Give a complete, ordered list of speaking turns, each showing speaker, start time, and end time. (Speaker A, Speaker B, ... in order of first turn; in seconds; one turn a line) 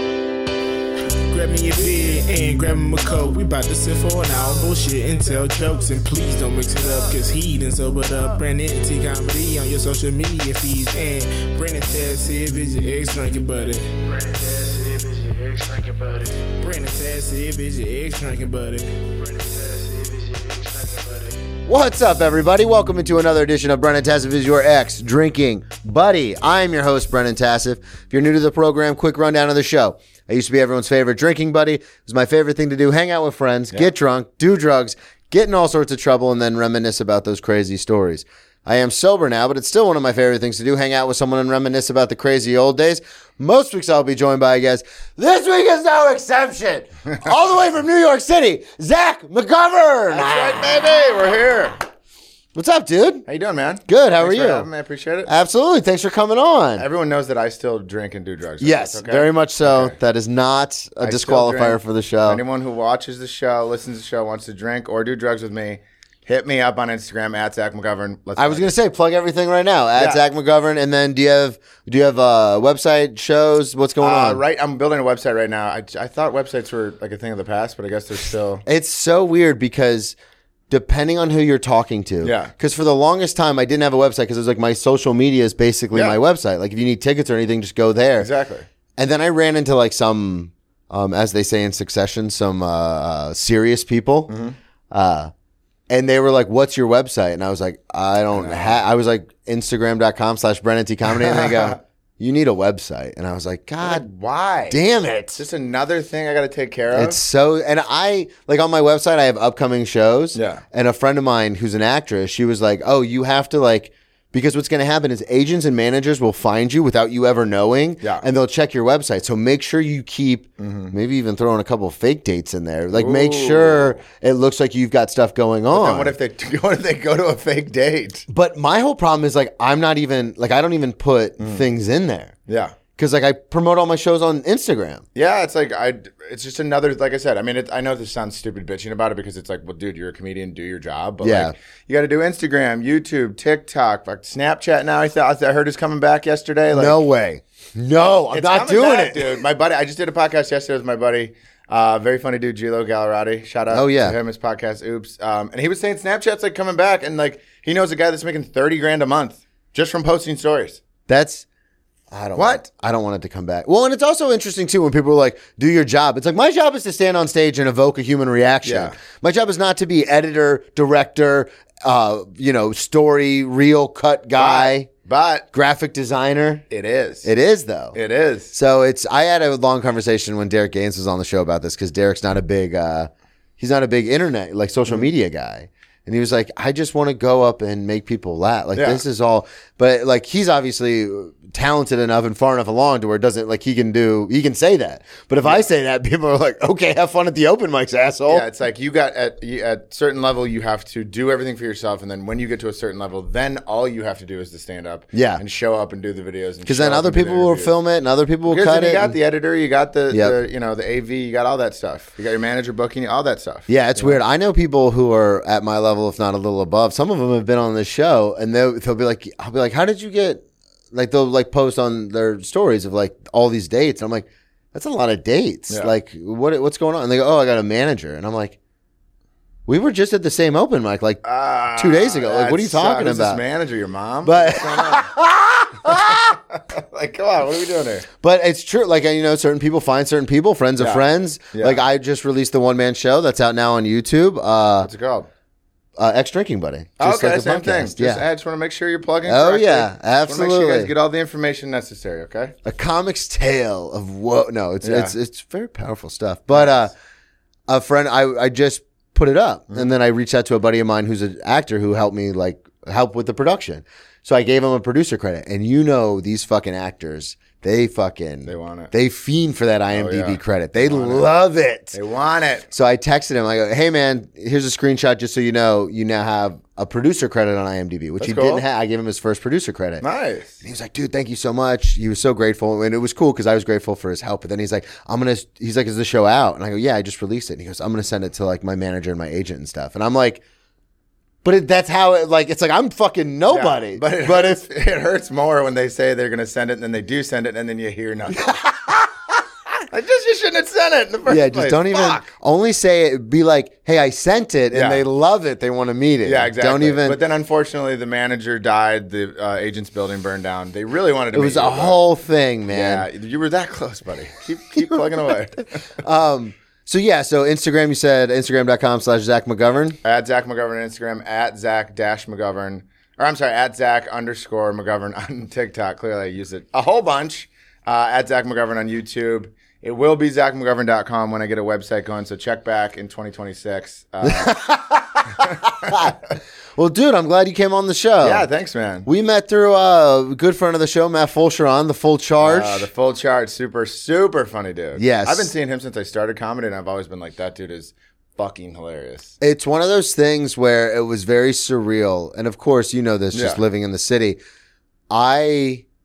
Speaker A: 1.3-21.4
Speaker B: 21.7-50.7
Speaker C: 50.1-51.8
Speaker B: 52.5-53.2
Speaker C: 53.3-55.3
Speaker B: 53.9-54.7
Speaker B: 55.3-56.9
Speaker C: 56.8-60.0
Speaker B: 58.6-62.4
Speaker C: 61.0-68.7
Speaker B: 68.4-74.4
Speaker C: 70.0-70.2
Speaker C: 74.0-78.6
Speaker B: 78.7-80.2
Speaker B: 80.7-88.3
Speaker C: 82.2-82.5
Speaker C: 85.9-86.2
Speaker C: 88.2-88.7
Speaker B: 89.0-94.3
Speaker C: 94.3-94.6
Speaker B: 94.9-95.3
Speaker B: 95.9-104.0
Speaker C: 98.3-98.8
Speaker C: 101.1-101.8
Speaker C: 103.8-104.8
Speaker B: 104.7-105.4
Speaker C: 105.4-107.2
Speaker B: 106.9-126.1
Speaker C: 110.3-110.6
Speaker C: 118.0-118.3
Speaker C: 120.6-120.9
Speaker C: 122.9-124.0
Speaker C: 125.7-128.3
Speaker B: 128.3-132.3
Speaker C: 131.4-131.7
Speaker C: 132.5-132.8
Speaker B: 133.0-135.0
Speaker C: 135.2-147.1
Speaker B: 141.2-141.5
Speaker B: 146.7-149.4
Speaker C: 148.3-160.8
Speaker B: 153.7-154.2
Speaker B: 161.1-161.4
Speaker B: 162.1-174.9
Speaker C: 162.3-162.6
Speaker C: 168.6-169.0
Speaker C: 174.3-175.5
Speaker B: 175.5-176.7
Speaker C: 176.7-177.3
Speaker B: 177.2-178.0
Speaker C: 177.9-178.5
Speaker B: 178.5-198.5
Speaker C: 188.8-189.0
Speaker C: 195.4-195.7
Speaker C: 198.3-207.7
Speaker B: 205.1-205.4
Speaker B: 206.7-209.2
Speaker C: 208.5-214.2
Speaker B: 210.1-210.4
Speaker B: 213.7-228.6
Speaker B: 229.7-231.2
Speaker C: 231.2-235.1
Speaker B: 231.8-233.4
Speaker B: 234.2-236.4
Speaker C: 235.8-238.1
Speaker B: 238.2-244.9
Speaker C: 240.8-241.8
Speaker C: 244.8-245.3
Speaker B: 246.0-248.2
Speaker C: 247.0-252.6
Speaker B: 249.3-250.9
Speaker B: 252.7-256.9
Speaker C: 254.8-255.1
Speaker C: 256.5-256.8
Speaker B: 257.7-272.0
Speaker C: 268.5-268.9
Speaker C: 269.9-271.3
Speaker C: 271.9-272.7
Speaker B: 272.7-280.0
Speaker C: 278.2-278.6
Speaker C: 280.0-280.6
Speaker B: 280.6-290.4
Speaker B: 291.4-294.6
Speaker C: 293.5-298.6
Speaker B: 298.4-299.0
Speaker C: 299.9-302.3
Speaker B: 301.3-307.2
Speaker C: 304.7-305.0
Speaker C: 306.2-312.0
Speaker B: 311.3-313.1
Speaker C: 312.7-315.7
Speaker B: 315.9-320.0
Speaker C: 320.0-334.6
Speaker B: 334.2-336.2
Speaker C: 335.4-336.1
Speaker B: 336.8-338.5
Speaker C: 338.2-339.1
Speaker B: 339.1-342.9
Speaker C: 342.4-349.4
Speaker B: 345.0-345.5
Speaker B: 349.4-354.4
Speaker C: 353.3-353.6
Speaker B: 355.1-355.8